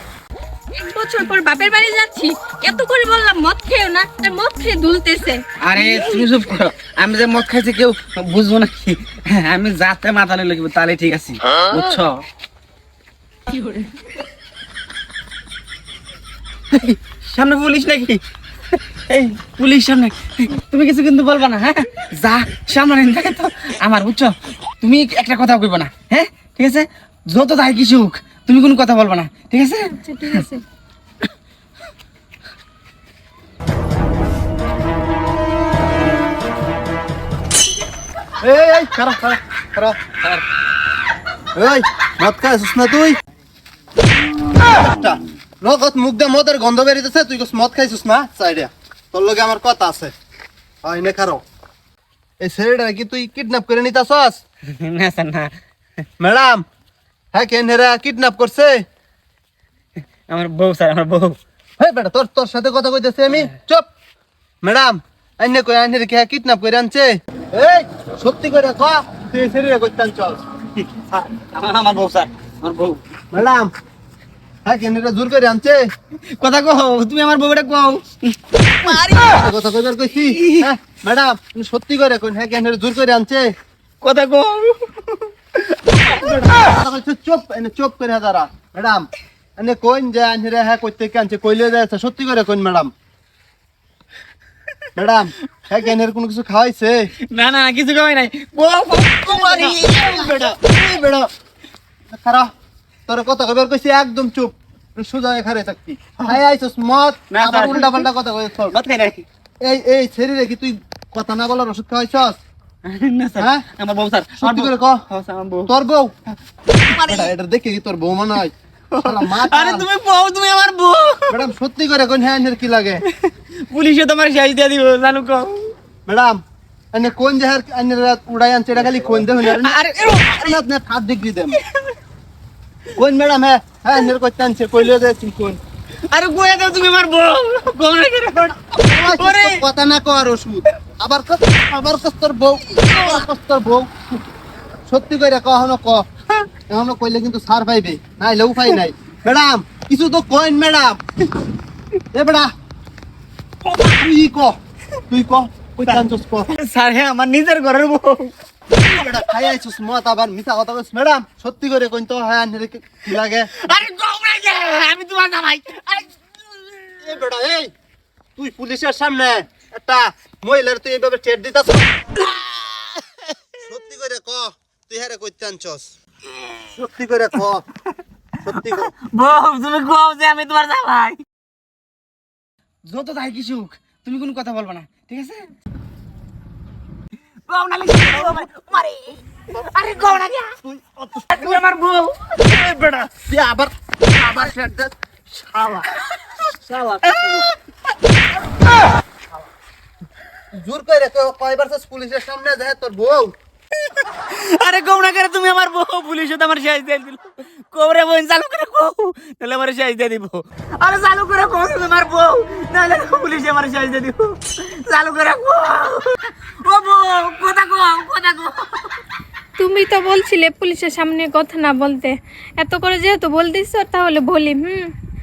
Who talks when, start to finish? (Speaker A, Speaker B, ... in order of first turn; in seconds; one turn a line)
Speaker A: 0.8-5.4
Speaker B: 5.6-12.2
Speaker A: 13.5-13.9
Speaker B: 16.7-18.2
Speaker B: 19.1-30.4
Speaker A: 29.9-30.6
Speaker C: 38.4-40.0
Speaker C: 41.5-43.2
Speaker C: 44.7-50.1
Speaker C: 50.8-51.4
Speaker C: 52.4-54.4
Speaker B: 54.7-55.5
Speaker C: 56.2-56.6
Speaker C: 57.3-58.9
Speaker B: 60.3-61.4
Speaker C: 61.8-63.9
Speaker C: 64.6-70.4
Speaker B: 70.8-73.0
Speaker C: 73.3-73.7
Speaker C: 74.7-75.8
Speaker B: 76.4-79.4
Speaker C: 78.8-83.5
Speaker B: 80.2-80.7
Speaker B: 84.0-86.6
Speaker C: 86.1-92.9
Speaker C: 95.0-97.1
Speaker B: 97.3-100.6
Speaker C: 99.2-101.3
Speaker C: 102.1-102.5
Speaker C: 103.1-108.8
Speaker B: 107.3-108.1
Speaker B: 108.7-109.2
Speaker C: 109.6-112.4
Speaker B: 112.8-115.7
Speaker C: 113.4-113.7
Speaker C: 114.4-115.0
Speaker C: 115.7-116.1
Speaker B: 116.7-117.3
Speaker C: 117.0-119.9
Speaker B: 118.9-121.5
Speaker C: 121.3-123.0
Speaker B: 123.1-125.7
Speaker C: 126.1-126.4
Speaker C: 126.9-129.8
Speaker B: 128.8-130.6
Speaker C: 130.3-131.6
Speaker C: 133.0-135.6
Speaker B: 136.1-139.7
Speaker C: 138.8-143.9
Speaker B: 142.6-143.3
Speaker C: 144.9-146.1
Speaker C: 146.7-151.0
Speaker C: 152.1-152.5
Speaker B: 153.7-154.0
Speaker C: 153.8-154.6
Speaker C: 155.1-156.5
Speaker B: 155.8-158.3
Speaker C: 158.8-163.5
Speaker B: 158.9-159.5
Speaker B: 163.1-166.1
Speaker B: 166.7-167.1
Speaker C: 167.0-167.7
Speaker C: 168.4-171.9
Speaker B: 172.3-172.9
Speaker C: 173.6-175.9
Speaker C: 176.7-177.6
Speaker B: 178.4-181.2
Speaker C: 178.4-178.9
Speaker B: 182.9-185.5
Speaker B: 187.5-190.6
Speaker C: 190.6-191.6
Speaker B: 191.3-193.0
Speaker C: 192.7-195.8
Speaker C: 196.6-197.4
Speaker B: 197.0-197.5
Speaker C: 200.6-203.3
Speaker B: 203.8-218.9
Speaker A: 219.6-224.9